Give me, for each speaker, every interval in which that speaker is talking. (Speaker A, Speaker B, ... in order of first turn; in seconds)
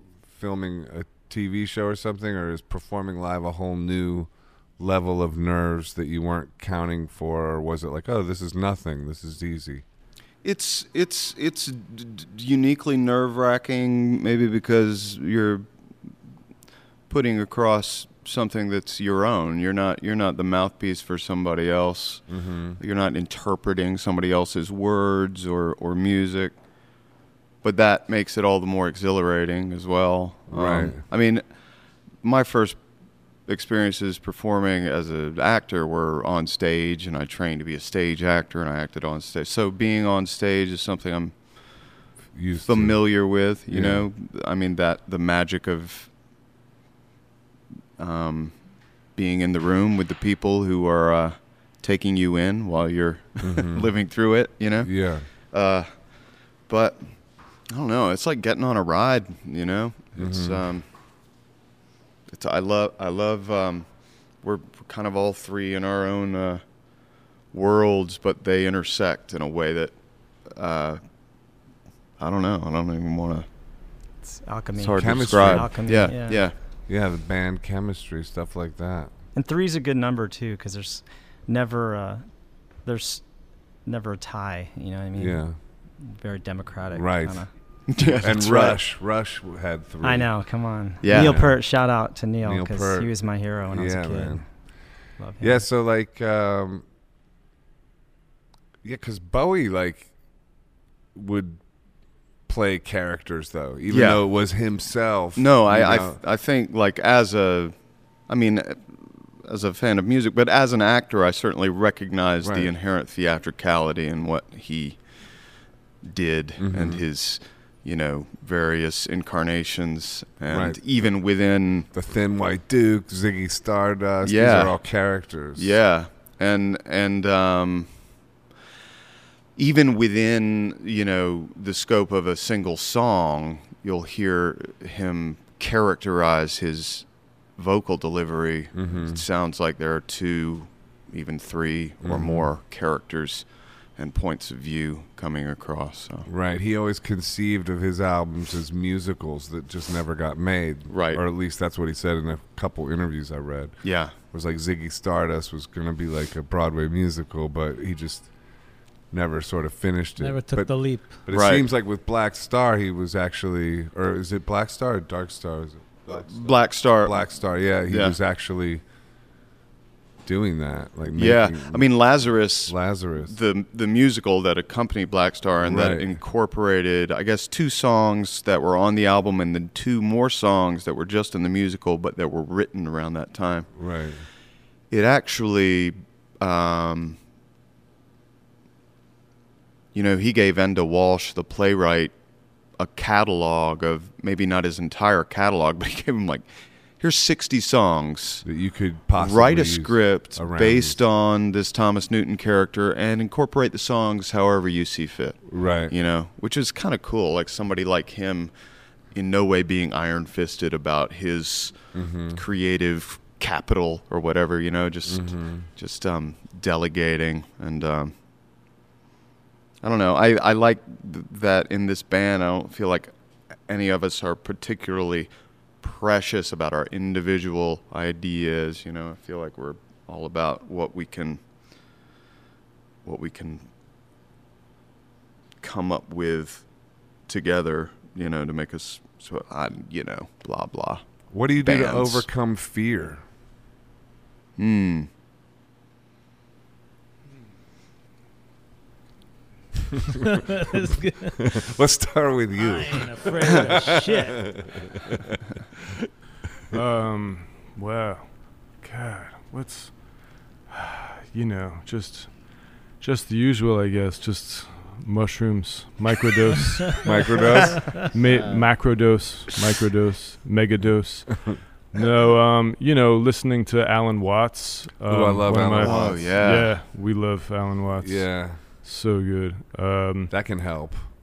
Speaker A: 0.3-9.8, 22.3-22.8, 30.5-31.0, 42.3-44.1, 53.4-53.9, 54.8-55.3, 60.2-60.6, 75.0-79.1, 85.2-85.6, 86.9-87.5, 88.1-90.3, 91.1-91.6, 92.4-94.5, 95.4-96.8, 98.8-100.1, 101.1-101.6, 102.5-106.2, 112.4-112.7, 116.6-117.0, 120.5-120.8, 121.9-125.8, 138.7-139.2, 142.0-142.5, 146.3-158.3, 159.1-168.8, 170.2-171.9, 172.7-173.3, 175.6-176.1, 183.8-184.2, 198.4-201.0, 205.5-205.9, 211.9-212.4, 215.1-215.7, 241.3-243.2, 251.4-255.3, 267.0-268.0, 275.1-276.5, 278.0-278.6, 280.3-281.0
Speaker B: 10.4-15.7, 17.1-26.6, 27.6-31.4, 32.2-32.8, 33.5-41.4, 42.7-46.1, 48.0-56.0, 56.7-57.1, 57.7-60.9, 62.3-66.7, 67.5-71.0, 72.2-73.5, 74.8-76.6, 87.9-88.8, 91.0-91.4, 103.9-104.2, 105.4-107.8, 108.3-115.0, 116.0-121.9, 124.2-124.8, 125.5-127.9, 129.6-146.3, 150.9-151.2, 153.8-154.1, 161.3-161.7, 166.1-167.2, 167.9-168.2, 171.2-183.7, 184.9-187.2, 189.9-192.1, 192.8-196.5, 197.0-198.4, 199.2-208.5, 209.1-218.2, 219.8-223.1, 223.7-225.3, 225.8-231.4, 233.0-233.7, 235.6-236.7, 237.2-241.0, 241.6-242.2, 244.6-245.1, 275.8-276.7
Speaker C: 74.2-76.5, 79.3-83.3, 83.8-87.5, 90.0-94.4, 95.2-95.6
Speaker D: 160.2-161.3, 250.2-251.6, 252.6-254.8, 267.4-268.1
Speaker E: 256.7-280.4